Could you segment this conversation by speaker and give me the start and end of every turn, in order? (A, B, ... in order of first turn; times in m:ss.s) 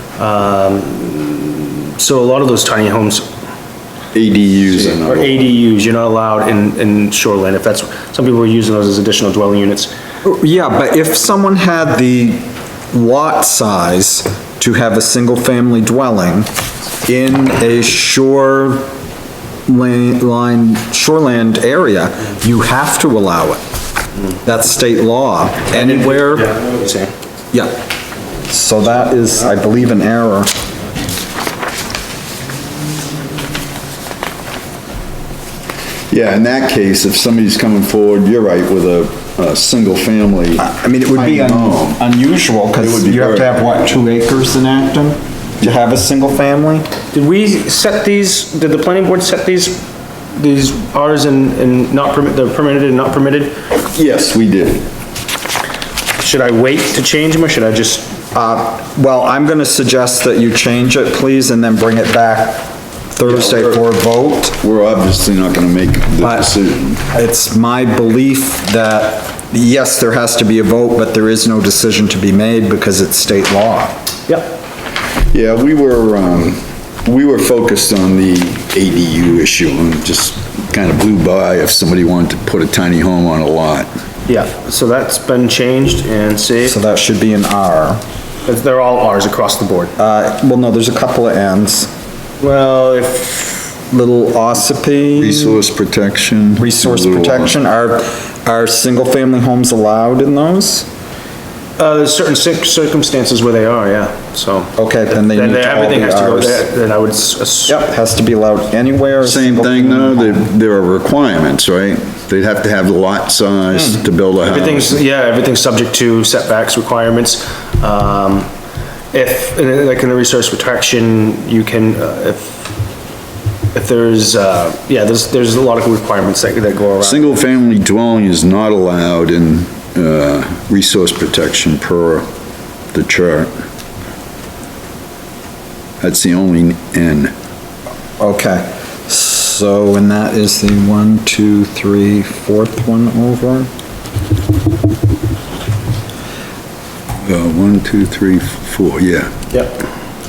0:00.2-0:03.3 A
0:04.1-0:05.4 B
0:04.7-0:09.9 A
0:10.2-0:16.5 C
0:17.0-0:18.9 C
0:19.7-0:23.6 C
0:24.4-0:26.5 C
0:25.7-0:27.1 A
0:28.5-0:30.5 C
0:36.1-0:42.0 B
0:40.6-0:46.9 C
0:42.8-0:43.5 B
0:47.1-0:53.6 A
0:53.9-0:54.9 B
0:56.2-0:58.2 A
0:58.3-1:04.6 C
1:03.3-1:03.8 B
1:04.6-1:07.0 B
1:06.2-1:06.5 C
1:07.1-1:13.9 C
1:14.3-1:14.6 A
1:15.3-1:23.9 B
1:24.3-1:26.8 A
1:26.7-1:28.0 C
1:28.5-1:29.9 A
1:30.0-1:31.9 C
1:32.4-1:33.7 A
1:33.9-1:35.6 C
1:35.2-1:37.5 B
1:36.6-1:40.9 C
1:41.8-1:47.8 A
1:44.8-1:46.7 C
1:47.7-1:50.5 C
1:49.2-1:55.0 B
1:54.4-1:58.5 A
1:59.1-2:02.6 A
2:03.7-2:07.4 A
2:07.0-2:12.2 B
2:12.9-2:13.5 B
2:16.0-2:17.3 B
2:18.2-2:23.7 C
2:27.2-2:29.3 B
2:29.5-2:29.9 A